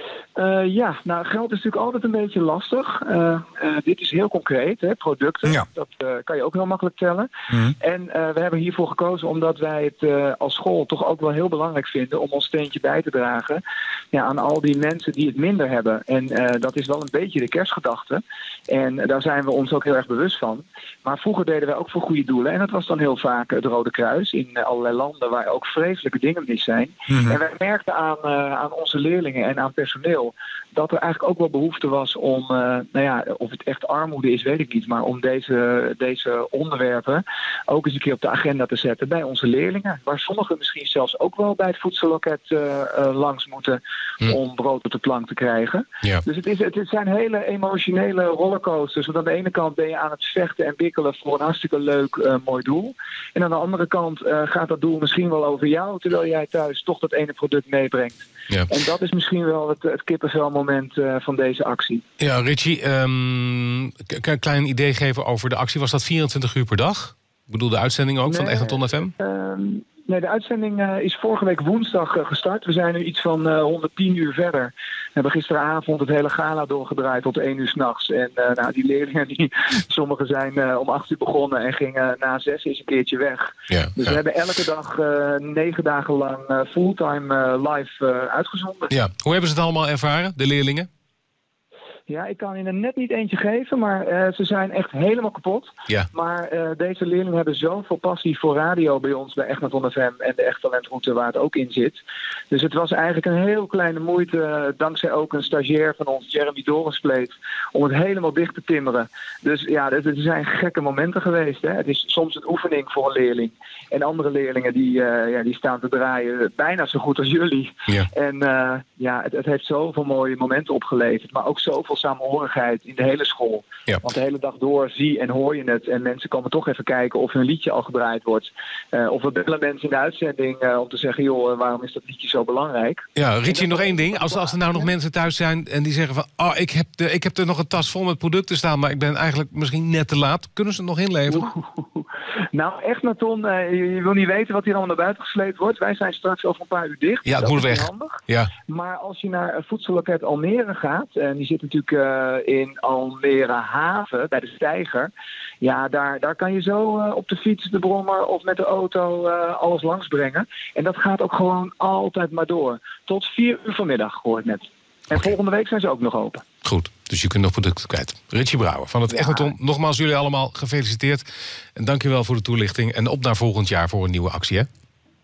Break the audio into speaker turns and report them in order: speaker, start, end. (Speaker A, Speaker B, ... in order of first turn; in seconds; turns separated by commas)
Speaker A: 0.3-62.0, Speaker B: 62.2-69.1, Speaker A: 68.3-88.9, Speaker B: 83.7-84.2, Speaker B: 88.9-90.9, Speaker A: 92.1-134.9, Speaker B: 133.2-141.5, Speaker A: 141.3-166.4, Speaker B: 147.2-148.5, Speaker B: 166.6-171.2, Speaker A: 169.1-169.5, Speaker B: 171.8-174.7